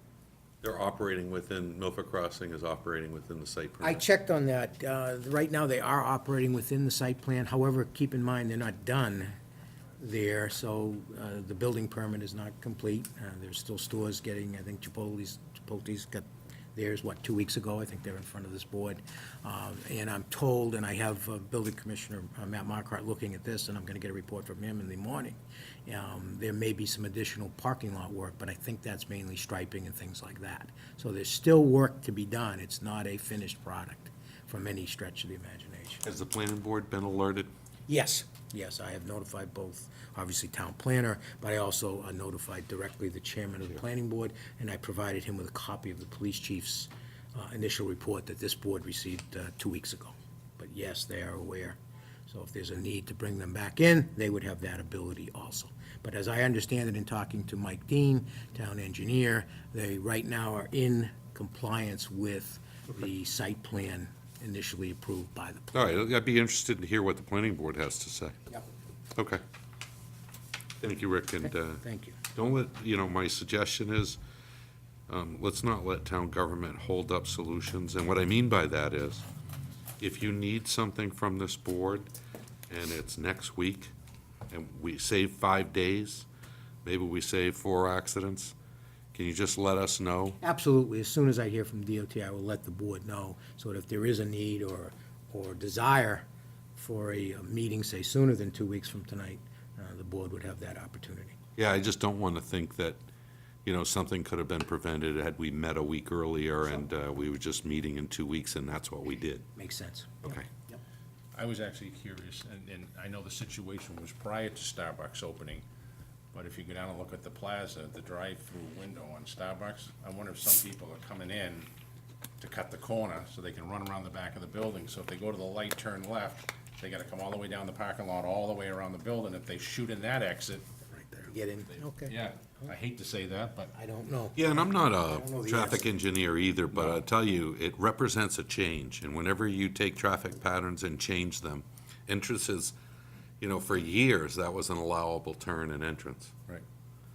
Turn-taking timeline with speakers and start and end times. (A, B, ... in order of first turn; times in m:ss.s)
0:00.6-0:04.0 A
0:03.8-0:09.3 B
0:10.0-0:36.0 B
0:36.0-0:37.5 A
0:37.9-1:06.0 B
1:05.7-1:08.4 A
1:09.2-1:09.4 A
1:10.8-1:14.2 A
1:11.7-1:12.2 B
1:15.1-1:19.2 A
1:20.0-1:22.1 A
1:22.7-1:23.9 A
1:24.5-1:26.3 A
1:26.8-1:28.5 A
1:29.1-1:30.4 A
1:30.4-1:41.4 B
1:41.6-1:43.0 A
1:43.6-1:49.5 A
1:49.6-1:50.8 B
1:50.2-1:50.5 A
1:51.4-1:55.6 C
1:56.3-2:01.7 C
2:02.4-2:13.7 C
2:11.3-2:12.2 B
2:13.8-2:15.8 B
2:14.4-2:22.7 A
2:23.4-2:26.3 A